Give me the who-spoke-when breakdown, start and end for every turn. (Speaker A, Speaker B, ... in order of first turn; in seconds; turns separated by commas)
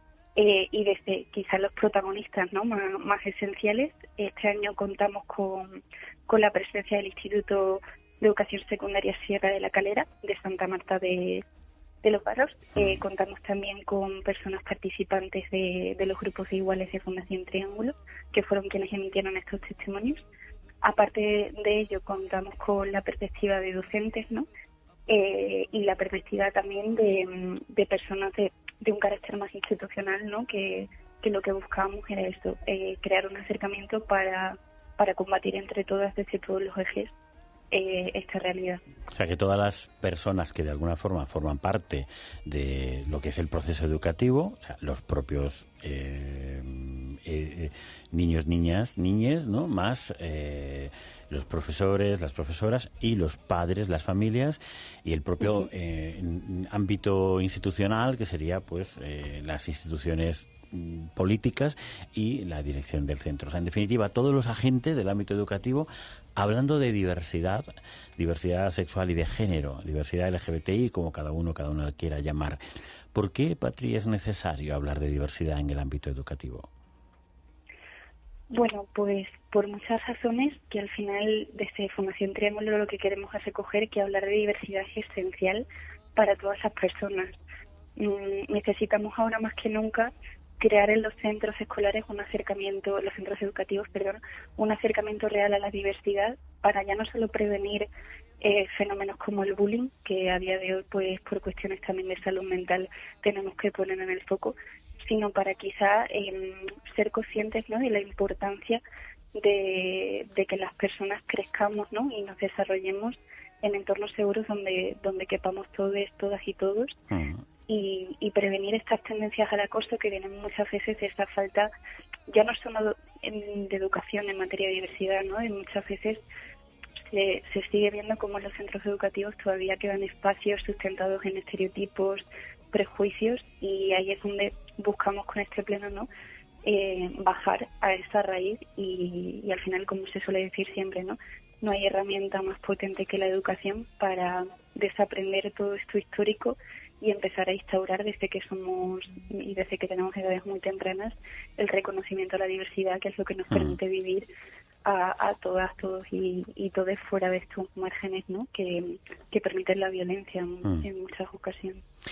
Speaker A: 0.3-11.4, Speaker A: 12.0-20.2, Speaker A: 20.8-24.5, Speaker A: 25.1-37.1, Speaker A: 37.7-38.8, Speaker B: 39.1-72.6, Speaker B: 73.1-76.7, Speaker A: 78.5-87.4, Speaker A: 88.0-97.9, Speaker A: 98.4-108.8, Speaker A: 109.3-117.0, Speaker B: 117.1-117.4, Speaker A: 117.7-121.7, Speaker A: 122.3-126.2, Speaker A: 127.1-136.1, Speaker A: 136.6-154.3, Speaker B: 153.5-153.8, Speaker A: 154.8-161.8